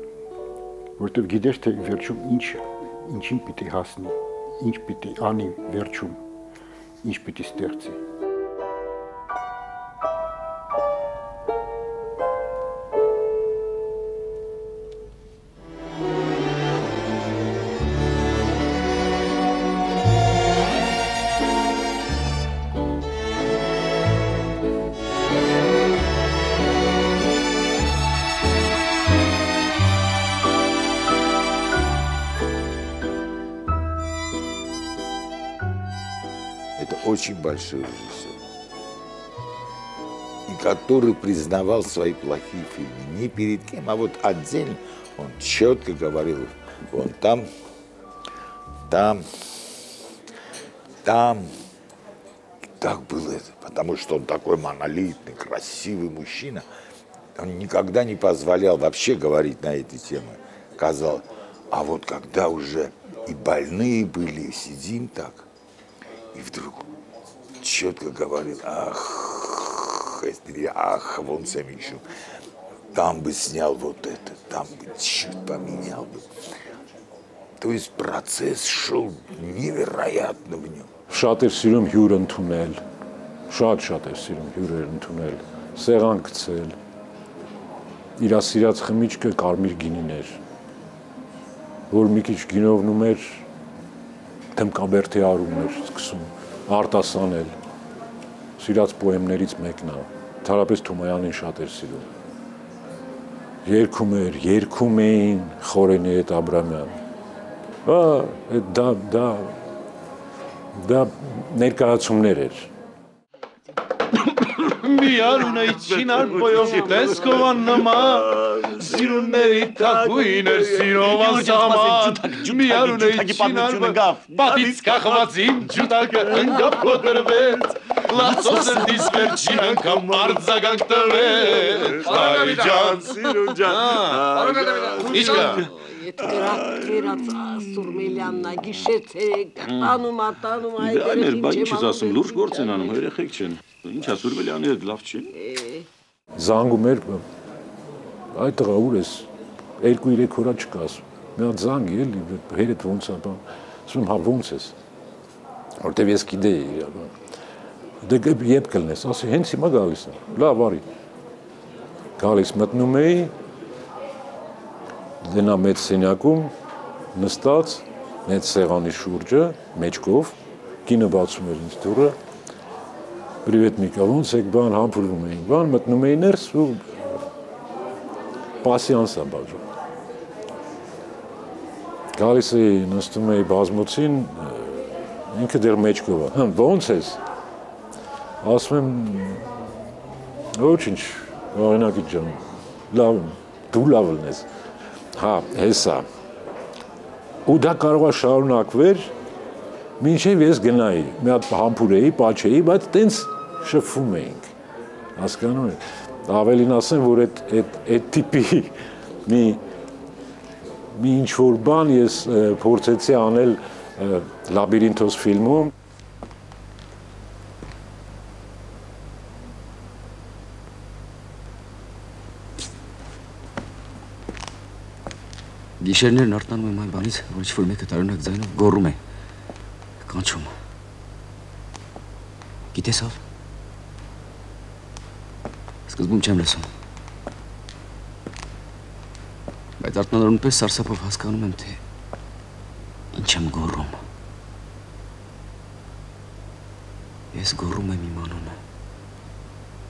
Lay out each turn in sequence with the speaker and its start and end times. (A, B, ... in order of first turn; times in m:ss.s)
0:01.0-0:06.2 A
0:07.0-0:08.0 A
0:36.8-0:38.4 B
0:40.5-0:47.5 B
0:48.9-0:49.2 B
0:51.0-0:51.5 B
0:52.8-0:56.6 B
0:57.4-1:05.5 B
1:06.3-1:06.9 B
1:07.6-1:12.0 B
1:12.9-1:16.3 B
1:17.6-1:20.9 B
1:21.1-1:22.8 C
1:23.5-1:26.8 C
1:28.2-1:30.4 C
1:31.9-1:33.4 C
1:34.5-1:37.6 C
1:38.6-1:42.1 C
1:43.6-1:47.0 C
1:47.8-1:49.6 C
1:50.8-1:52.7 C
1:54.6-2:13.1 D
2:00.8-2:04.7 E
2:12.1-2:15.7 E
2:13.6-2:15.7 D
2:15.0-2:23.0 F
2:19.6-2:20.0 E
2:20.8-2:25.4 E
2:25.3-2:25.8 F
2:26.4-2:27.2 C
2:28.3-2:29.3 C
2:29.8-2:34.8 C
2:35.8-2:37.1 C
2:38.0-2:40.8 C
2:42.2-2:43.3 C
2:45.2-2:46.5 C
2:47.1-2:52.2 C
2:53.4-2:57.2 C
2:58.6-2:59.6 C
3:02.1-3:07.2 C
3:08.4-3:09.7 C
3:10.6-3:14.5 C
3:15.1-3:16.1 C
3:17.5-3:19.1 C
3:20.0-3:24.5 C
3:25.2-3:29.6 C
3:30.9-3:35.7 C
3:45.8-3:49.0 G
3:50.0-3:50.6 G
3:52.7-3:53.2 G
3:55.9-3:56.7 G
3:59.8-4:01.8 G
4:03.1-4:04.0 G
4:07.3-4:08.6 G